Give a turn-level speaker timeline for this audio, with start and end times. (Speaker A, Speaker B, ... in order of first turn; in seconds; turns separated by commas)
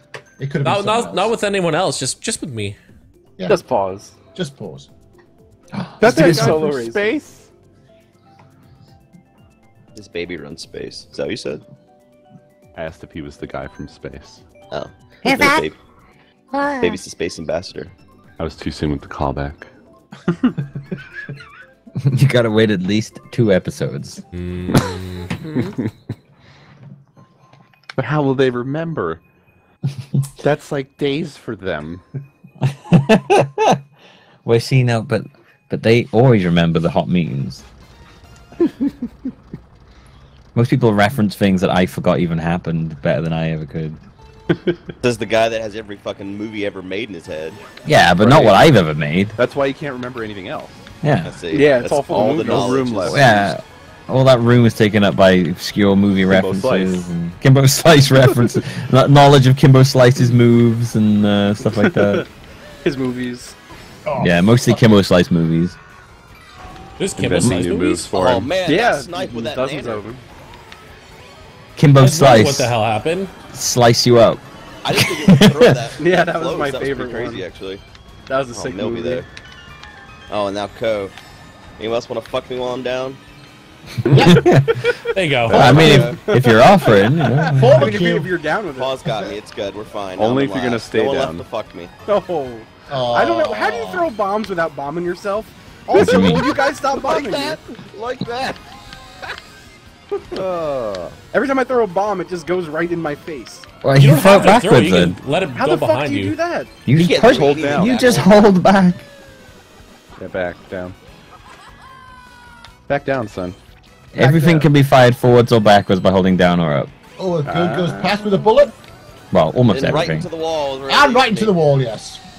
Speaker A: 0.4-1.4, Speaker B: 0.6-2.8, Speaker C: 3.5-4.1, Speaker A: 4.3-4.9, Speaker D: 5.7-6.7, Speaker C: 6.0-7.2, Speaker E: 6.0-7.5, Speaker F: 9.9-11.6, Speaker E: 12.8-14.4, Speaker F: 14.7-15.7, Speaker F: 16.8-17.9, Speaker E: 18.4-19.7, Speaker D: 22.0-24.2, Speaker B: 24.3-25.3, Speaker E: 25.6-25.9, Speaker E: 28.0-29.2, Speaker E: 30.4-32.0, Speaker D: 32.6-33.8, Speaker D: 34.5-37.6, Speaker D: 40.5-44.0, Speaker F: 45.0-47.6, Speaker D: 47.8-49.4, Speaker E: 48.2-48.8, Speaker E: 49.4-50.9, Speaker D: 51.0-51.4, Speaker F: 51.2-53.5, Speaker C: 51.5-52.7, Speaker E: 52.4-53.5, Speaker D: 53.0-62.2, Speaker E: 56.3-57.1, Speaker C: 61.6-62.3, Speaker C: 62.8-63.6, Speaker A: 64.1-64.9, Speaker D: 64.2-65.8, Speaker B: 67.0-68.3, Speaker E: 67.2-68.5, Speaker D: 67.4-67.7, Speaker F: 68.1-70.0, Speaker C: 68.6-70.2, Speaker D: 71.8-72.8, Speaker B: 72.0-73.3, Speaker D: 73.5-74.4, Speaker F: 74.8-77.8, Speaker C: 76.0-77.5, Speaker C: 78.3-79.3, Speaker F: 78.5-79.3, Speaker F: 80.3-81.2, Speaker F: 81.8-83.2, Speaker E: 84.1-84.4, Speaker A: 84.1-84.4, Speaker D: 84.2-84.8, Speaker B: 85.1-86.0, Speaker F: 85.5-86.3, Speaker D: 85.5-88.0, Speaker A: 85.5-86.0, Speaker C: 85.7-89.3, Speaker A: 87.5-88.3, Speaker F: 88.8-91.9, Speaker E: 90.2-91.5, Speaker C: 92.1-97.6, Speaker A: 92.9-94.1, Speaker F: 95.9-98.6, Speaker D: 95.9-96.5, Speaker E: 100.4-101.2, Speaker C: 101.3-103.7, Speaker D: 103.8-105.2, Speaker B: 104.0-106.4, Speaker C: 105.5-106.7, Speaker D: 106.9-109.1, Speaker F: 106.9-108.4, Speaker E: 107.3-108.3, Speaker E: 110.2-111.0, Speaker E: 112.9-113.6, Speaker D: 114.1-116.9, Speaker C: 114.2-114.7, Speaker A: 117.2-118.8, Speaker E: 117.5-118.1, Speaker D: 119.3-120.3, Speaker F: 119.7-121.6, Speaker A: 120.9-122.2